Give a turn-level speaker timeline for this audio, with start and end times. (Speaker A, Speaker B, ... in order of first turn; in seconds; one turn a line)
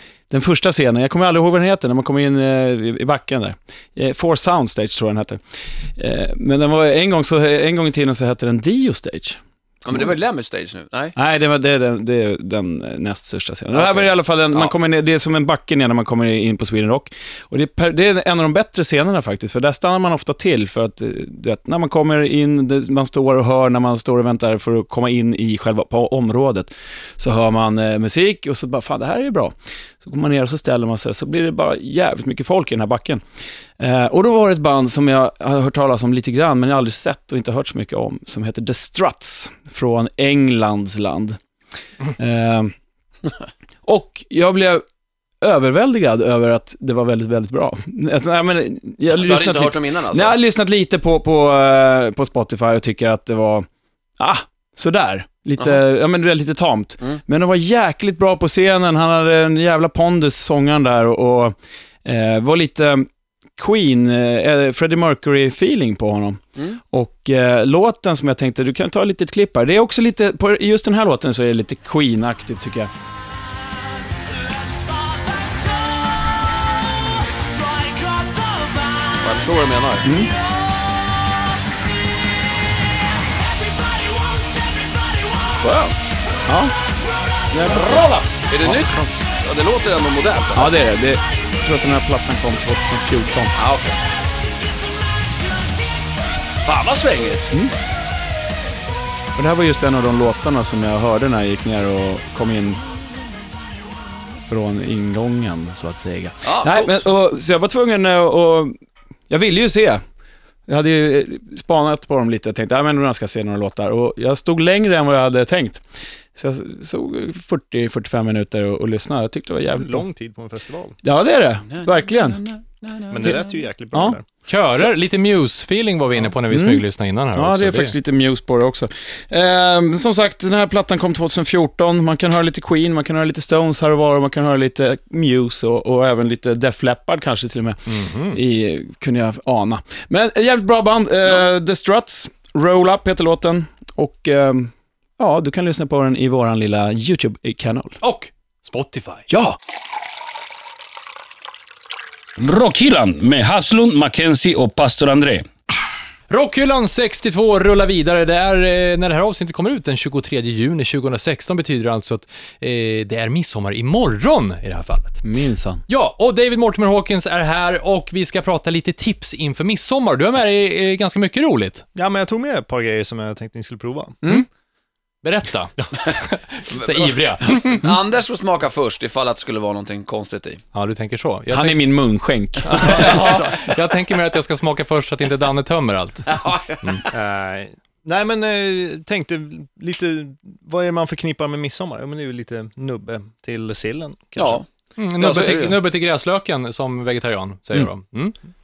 Speaker A: 0.3-10.1
Speaker B: 9.8-11.1
Speaker A: 11.2-33.2
Speaker B: 13.7-14.7
Speaker A: 33.8-41.4
Speaker A: 42.2-42.7
Speaker A: 43.8-44.8
Speaker A: 45.4-53.7
Speaker B: 49.1-50.3
Speaker A: 54.2-72.9
Speaker B: 79.1-80.1
Speaker A: 80.0-80.3
Speaker A: 85.6-86.7
Speaker A: 87.5-88.8
Speaker B: 87.7-90.7
Speaker A: 90.5-93.5
Speaker B: 93.5-94.0
Speaker B: 96.6-97.5
Speaker A: 99.3-102.8
Speaker A: 104.5-108.7
Speaker B: 106.4-107.0
Speaker A: 109.3-110.0
Speaker A: 110.7-120.0
Speaker C: 119.7-121.0
Speaker A: 121.0-122.4
Speaker B: 121.7-123.5
Speaker C: 123.1-124.2
Speaker D: 124.5-127.9
Speaker A: 126.5-148.0
Speaker D: 137.9-138.4
Speaker D: 148.0-149.3
Speaker A: 149.3-149.6
Speaker E: 152.4-155.5
Speaker D: 156.3-165.2
Speaker A: 165.2-165.8
Speaker D: 165.9-171.8
Speaker C: 171.9-174.2
Speaker D: 175.2-177.9
Speaker B: 176.7-180.6
Speaker D: 180.7-181.8
Speaker A: 181.5-183.1
Speaker D: 182.6-187.0
Speaker C: 182.7-183.7
Speaker B: 186.3-187.0
Speaker C: 187.1-194.6
Speaker B: 194.3-194.7
Speaker D: 195.0-198.3
Speaker B: 195.2-195.8